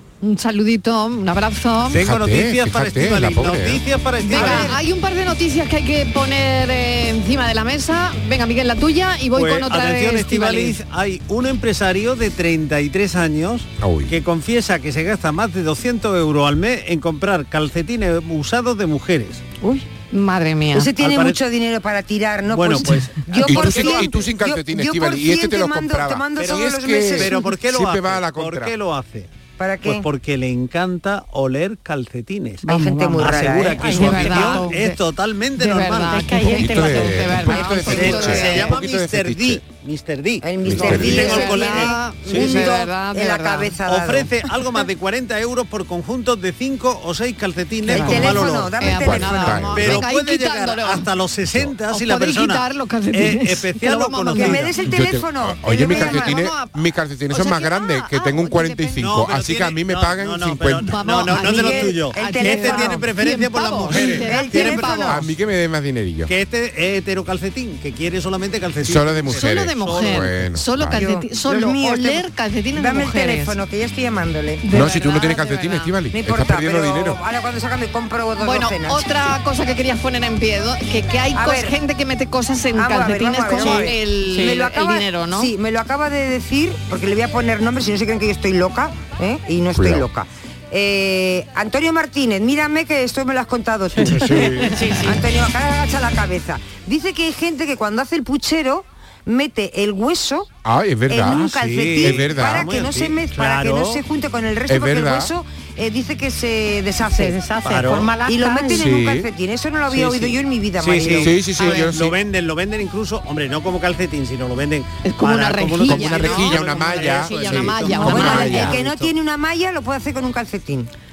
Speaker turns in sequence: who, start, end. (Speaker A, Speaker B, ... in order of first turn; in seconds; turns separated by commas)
Speaker A: 0.2-2.0, Speaker B: 1.9-4.8, Speaker C: 1.9-3.8, Speaker A: 4.3-10.8, Speaker D: 4.3-4.7, Speaker B: 9.3-19.5, Speaker C: 13.8-14.1, Speaker A: 19.6-20.9, Speaker D: 20.7-27.4, Speaker B: 21.0-21.4, Speaker B: 22.5-24.1, Speaker C: 23.4-28.7, Speaker B: 26.4-29.3, Speaker D: 29.6-30.1, Speaker B: 29.9-36.5, Speaker D: 32.6-34.2, Speaker E: 33.2-34.7, Speaker A: 33.9-35.0, Speaker A: 35.6-38.8, Speaker E: 36.1-37.3, Speaker C: 36.6-39.6, Speaker B: 37.3-42.7, Speaker D: 37.5-38.1, Speaker D: 40.4-44.3, Speaker C: 40.6-41.4, Speaker A: 40.8-43.8, Speaker B: 43.9-48.8, Speaker D: 47.9-49.7, Speaker A: 47.9-51.1, Speaker C: 48.8-50.1, Speaker B: 49.7-54.8, Speaker A: 51.9-54.7, Speaker D: 54.3-56.5, Speaker C: 54.9-60.9, Speaker A: 55.7-59.0, Speaker B: 59.0-65.1, Speaker A: 60.9-65.2, Speaker D: 61.4-63.1, Speaker D: 63.9-65.1, Speaker C: 65.0-66.3, Speaker B: 66.3-70.4, Speaker C: 68.8-71.0, Speaker A: 69.3-73.6, Speaker D: 70.9-74.6, Speaker A: 74.6-75.9, Speaker C: 74.7-77.2, Speaker D: 76.1-79.3, Speaker A: 78.4-85.5, Speaker D: 81.3-81.8, Speaker D: 82.7-100.5, Speaker C: 89.8-90.1, Speaker C: 94.2-94.8, Speaker A: 94.7-95.2, Speaker C: 100.6-102.8, Speaker D: 101.1-107.4, Speaker B: 101.3-104.0, Speaker C: 104.7-105.3, Speaker E: 107.2-108.8, Speaker B: 107.6-108.1, Speaker D: 108.2-111.4, Speaker C: 108.8-109.3, Speaker B: 109.9-119.1, Speaker C: 111.2-112.2, Speaker A: 115.0-118.7, Speaker C: 115.9-118.8, Speaker D: 118.0-120.9